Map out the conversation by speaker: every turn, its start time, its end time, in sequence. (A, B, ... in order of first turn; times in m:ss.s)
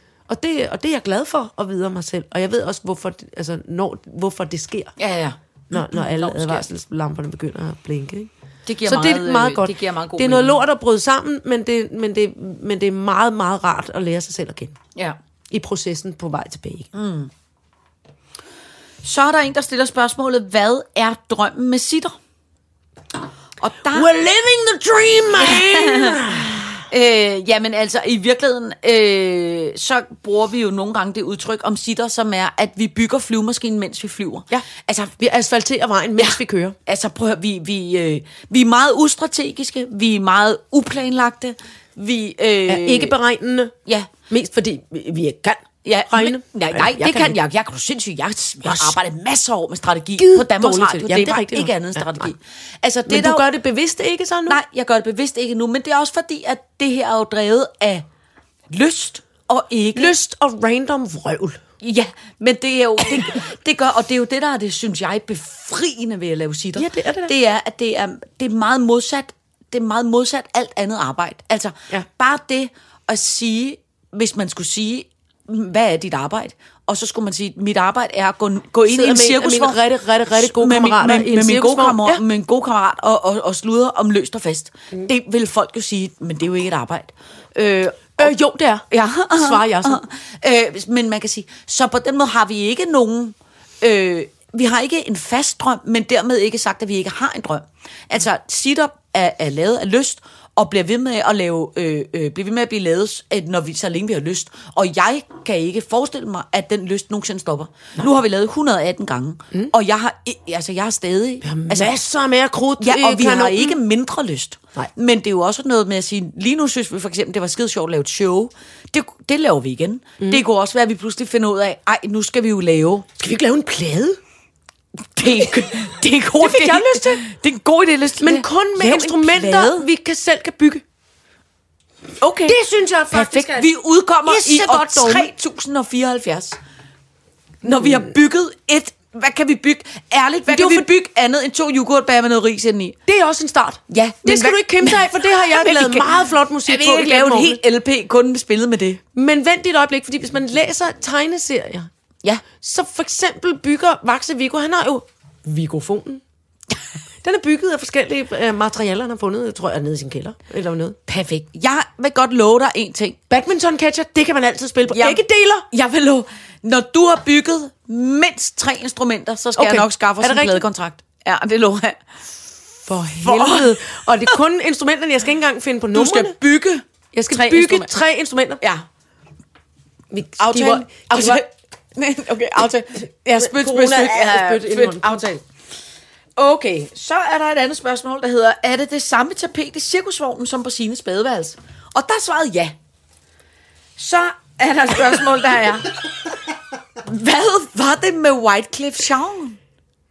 0:00.3-0:04.9 A
0:05.0-0:06.7 B
0:05.7-0:08.3 A
0:08.7-0:10.6 B
0:08.8-0:14.8 A
0:15.5-0:16.9 A
0:16.9-0:17.3 B
0:19.0-0:22.2 B
0:23.6-0:24.1 B
0:23.9-0:26.8 A
0:25.4-0:26.2 B
0:26.9-0:35.2 B
0:35.2-0:36.8 A
0:36.2-0:43.2 B
0:42.7-0:43.7 A
0:44.3-0:47.4 A
0:45.8-0:53.5 B
0:48.6-0:49.0 A
0:50.2-0:52.3 A
0:53.1-0:54.6 A
0:54.5-0:58.1 B
0:58.7-1:00.1 B
1:00.0-1:01.6 A
1:01.8-1:19.8 B
1:06.8-1:07.3 A
1:18.9-1:22.2 A
1:20.3-1:28.3 B
1:28.2-1:30.0 A
1:28.9-1:51.9 B
1:51.4-1:53.8 A
1:52.8-2:03.1 B
2:03.2-2:04.2 A
2:05.2-2:09.8 B
2:06.4-2:07.2 A
2:08.2-2:10.8 A
2:12.2-2:12.6 B
2:12.5-2:13.7 A
2:13.1-2:16.6 B
2:14.3-2:15.3 A
2:17.6-2:23.0 B
2:17.7-2:18.0 A
2:20.5-2:20.9 A
2:23.1-2:27.6 A
2:23.9-2:26.1 B
2:26.7-2:29.0 B
2:29.1-2:31.9 A
2:32.6-2:36.2 A
2:37.2-2:41.0 A
2:41.1-2:43.2 B
2:43.3-2:45.7 A
2:44.9-2:52.0 B
2:49.6-2:50.6 A
2:52.9-2:56.4 A
2:53.2-2:54.4 B
2:55.9-2:57.9 B
2:57.1-2:58.6 A
3:00.1-3:01.4 A
3:00.4-3:05.4 B
3:03.4-3:05.2 A
3:06.4-3:12.8 B
3:14.0-3:16.0 B
3:17.0-3:19.6 B